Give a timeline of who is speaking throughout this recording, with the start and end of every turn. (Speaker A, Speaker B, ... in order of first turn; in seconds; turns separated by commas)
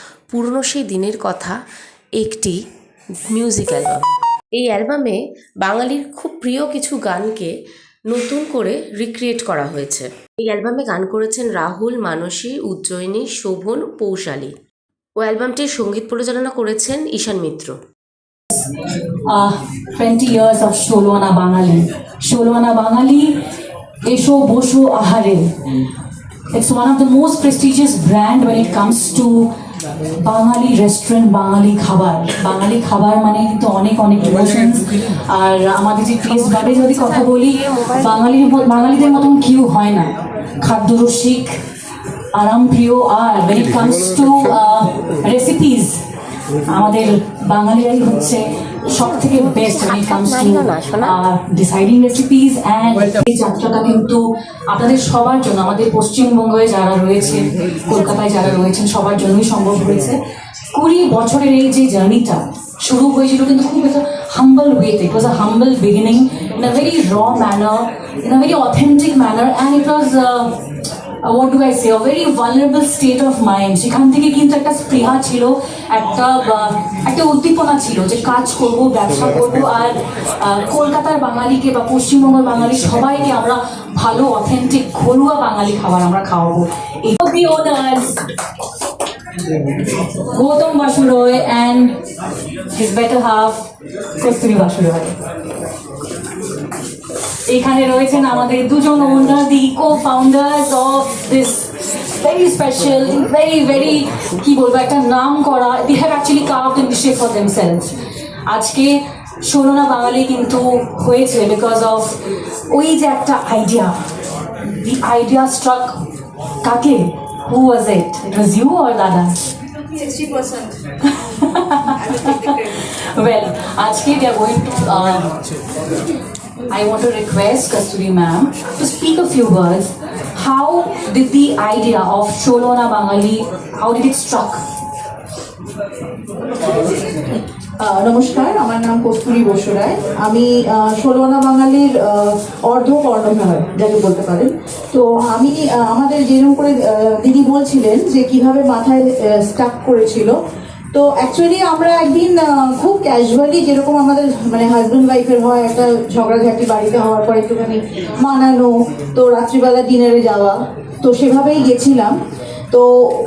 Speaker A: 0.3-1.6, Speaker A: 2.2-2.6, Speaker A: 3.3-7.5, Speaker A: 8.1-14.5, Speaker A: 15.2-17.8, Speaker B: 19.3-23.3, Speaker B: 24.1-25.4, Speaker B: 26.5-29.5, Speaker B: 30.2-41.5, Speaker A: 36.6-37.0, Speaker B: 42.3-46.0, Speaker B: 46.7-60.2, Speaker A: 49.3-51.1, Speaker B: 60.7-70.6, Speaker B: 71.2-88.1, Speaker B: 90.3-92.0, Speaker B: 92.7-93.6, Speaker B: 94.2-95.1, Speaker B: 97.5-107.9, Speaker B: 108.5-112.2, Speaker B: 112.7-114.0, Speaker B: 114.8-115.9, Speaker B: 116.6-119.3, Speaker B: 121.1-125.3, Speaker B: 126.7-134.6, Speaker C: 137.8-150.3, Speaker C: 150.9-162.1